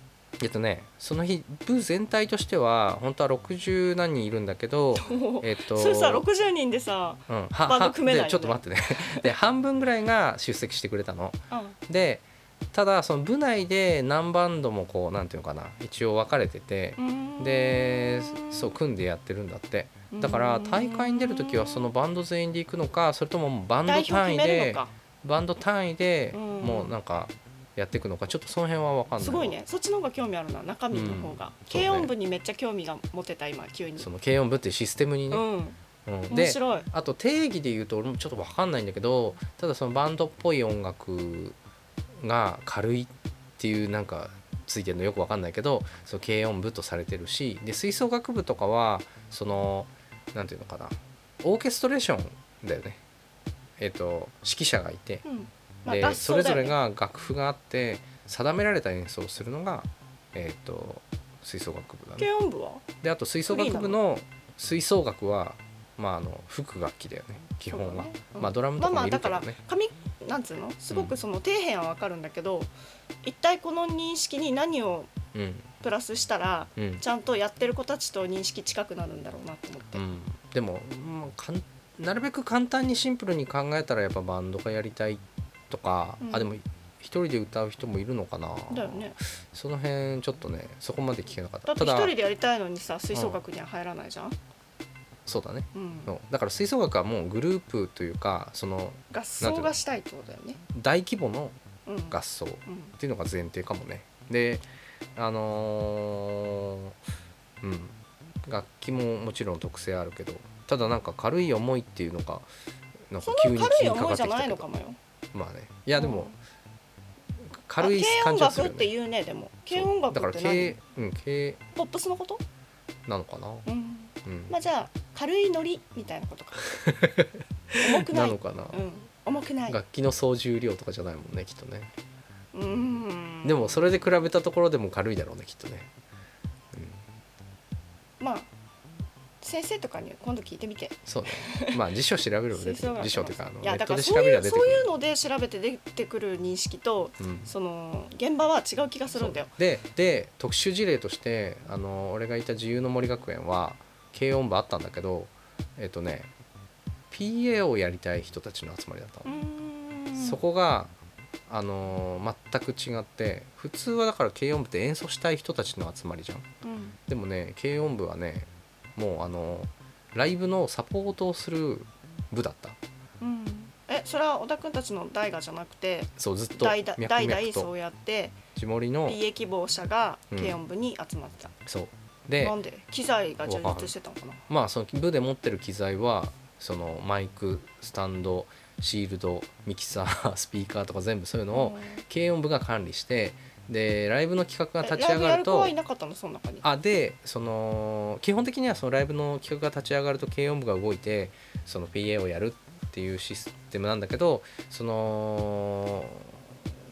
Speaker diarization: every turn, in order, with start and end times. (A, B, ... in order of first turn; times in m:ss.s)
0:00.4-0:06.3 A
0:04.9-0:09.3 B
0:07.3-0:29.6 A
0:11.5-0:11.8 B
0:17.0-0:18.8 B
0:20.1-0:21.9 B
0:23.8-0:24.9 B
0:26.3-0:27.0 B
0:29.2-0:34.1 B
0:30.9-0:32.1 A
0:34.0-0:35.4 A
0:35.3-0:35.8 B
0:36.1-0:41.6 A
0:36.3-0:36.9 B
0:42.2-0:53.0 A
0:53.8-0:55.2 A
0:55.2-0:56.8 B
0:55.9-1:02.3 A
1:02.2-1:02.8 B
1:03.0-1:09.6 A
1:03.5-1:04.0 B
1:07.7-1:12.7 B
1:13.2-1:15.1 B
1:15.3-1:15.7 A
1:15.8-1:20.0 B
1:16.8-1:17.0 A
1:20.0-1:32.1 A
1:26.2-1:26.5 B
1:28.7-1:29.2 B
1:31.7-1:34.4 B
1:33.1-1:33.4 A
1:35.3-1:39.8 A
1:35.7-1:36.1 B
1:39.1-1:40.6 B
1:40.7-1:41.6 A
1:41.9-1:42.9 B
1:42.1-1:47.0 A
1:47.6-1:52.5 A
1:53.1-1:54.7 A
1:53.2-1:55.0 B
1:55.3-1:56.3 A
1:56.0-1:56.3 B
1:57.5-1:58.9 A
1:57.8-2:00.8 B
1:59.7-2:01.6 A
2:01.8-2:02.4 B
2:03.1-2:03.7 A
2:03.7-2:06.8 B
2:04.2-2:04.5 A
2:06.7-2:08.8 A
2:07.8-2:09.8 B
2:09.7-2:11.9 A
2:12.5-2:14.0 B
2:13.4-2:15.9 A
2:16.7-2:17.0 A
2:18.2-2:18.5 B
2:19.4-2:21.8 B
2:21.0-2:24.9 A
2:22.5-2:29.5 B
2:27.2-2:27.5 A
2:29.1-2:36.3 A
2:37.1-2:39.3 A
2:39.2-2:40.4 B
2:40.2-2:40.9 A
2:41.5-2:46.5 A
2:46.6-2:47.0 B
2:47.1-2:52.8 A
2:53.2-2:58.4 B
2:56.2-2:57.7 A
2:58.6-2:59.2 A
2:59.1-3:01.6 B
3:00.3-3:00.6 A
3:01.7-3:02.6 A
3:02.4-3:04.4 B
3:03.4-3:03.9 A
3:04.5-3:15.7 A
3:11.5-3:12.0 B
3:14.8-3:16.6 B
3:16.6-3:26.5 A